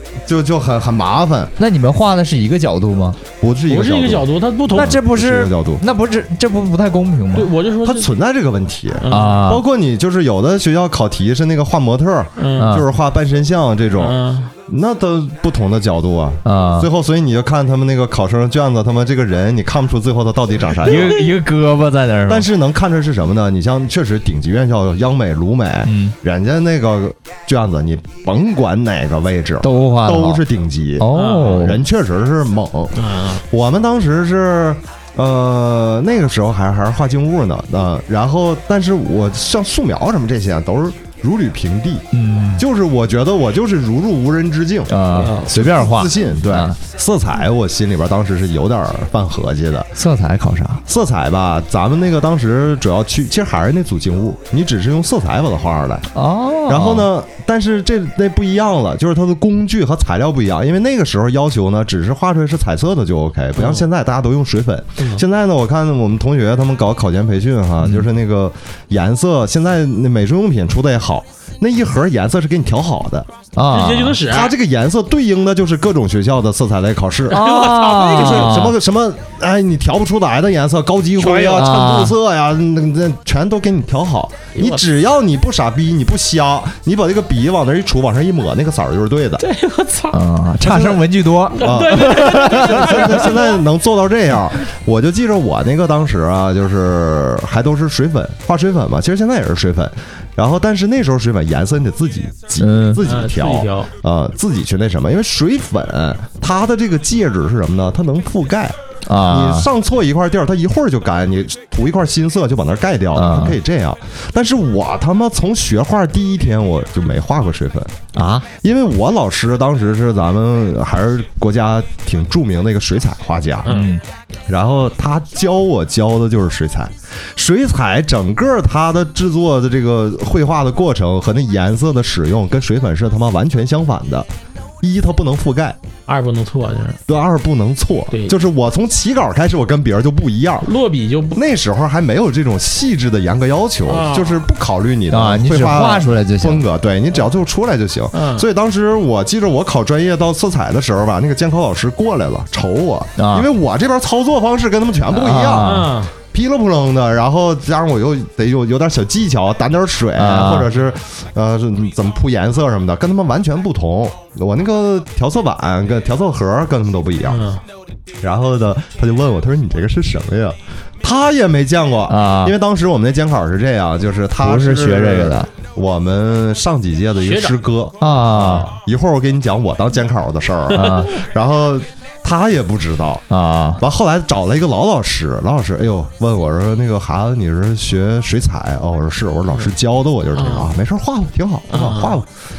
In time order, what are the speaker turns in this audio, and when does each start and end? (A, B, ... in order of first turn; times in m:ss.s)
0:00.2-0:01.6 A
0:01.6-0:03.2 B
0:03.4-0:05.8 A
0:03.7-0:05.0 C
0:04.7-0:07.5 B
0:07.3-0:08.1 C
0:07.8-0:21.2 A
0:09.0-0:09.4 C
0:09.1-0:09.6 B
0:12.4-0:12.8 C
0:12.6-0:12.9 B
0:14.0-0:14.5 C
0:16.4-0:16.9 B
0:20.8-0:22.5 B
0:22.3-0:50.0 A
0:25.8-0:26.1 B
0:29.6-0:30.4 B
0:31.0-0:31.8 B
0:31.1-0:31.7 C
0:33.0-0:33.4 C
0:42.1-0:42.6 B
0:44.9-0:46.7 B
0:45.2-0:45.4 C
0:50.0-0:50.8 B
0:50.9-0:56.1 A
0:56.1-0:57.1 B
0:56.6-1:13.3 A
1:07.8-1:08.1 B
1:13.6-1:14.2 B
1:13.7-1:14.5 C
1:14.2-1:17.4 A
1:17.3-1:18.7 C
1:17.3-1:18.7 B
1:18.0-1:29.4 A
1:21.2-1:21.8 C
1:21.5-1:22.2 B
1:24.5-1:24.8 C
1:29.4-1:30.2 C
1:30.1-1:33.2 B
1:30.6-1:31.0 A
1:31.6-1:57.9 A
1:31.6-1:33.6 C
1:42.6-1:43.0 B
1:43.0-1:43.9 C
1:49.1-1:49.7 B
1:53.1-1:53.6 B
1:58.2-1:58.5 B
1:58.6-2:03.8 A
2:03.6-2:03.9 C
2:03.7-2:04.0 B
2:04.5-2:14.3 A
2:14.8-2:15.8 A
2:16.1-2:17.0 C
2:17.1-2:20.7 A
2:18.1-2:18.4 C
2:20.6-2:21.4 C
2:21.3-2:47.4 A
2:23.8-2:24.4 C
2:25.1-2:26.6 B
2:28.1-2:28.5 C
2:33.2-2:33.5 B
2:35.2-2:36.0 B
2:35.6-2:36.1 C
2:40.2-2:40.7 B
2:47.3-2:47.6 C
2:48.2-3:03.2 A
2:52.1-2:52.6 B
2:54.4-2:55.5 B
2:57.2-2:57.5 C
2:58.0-2:58.7 B
3:00.8-3:01.1 B
3:03.3-3:03.8 B
3:03.8-3:12.3 A
3:10.4-3:10.7 C
3:11.7-3:12.2 C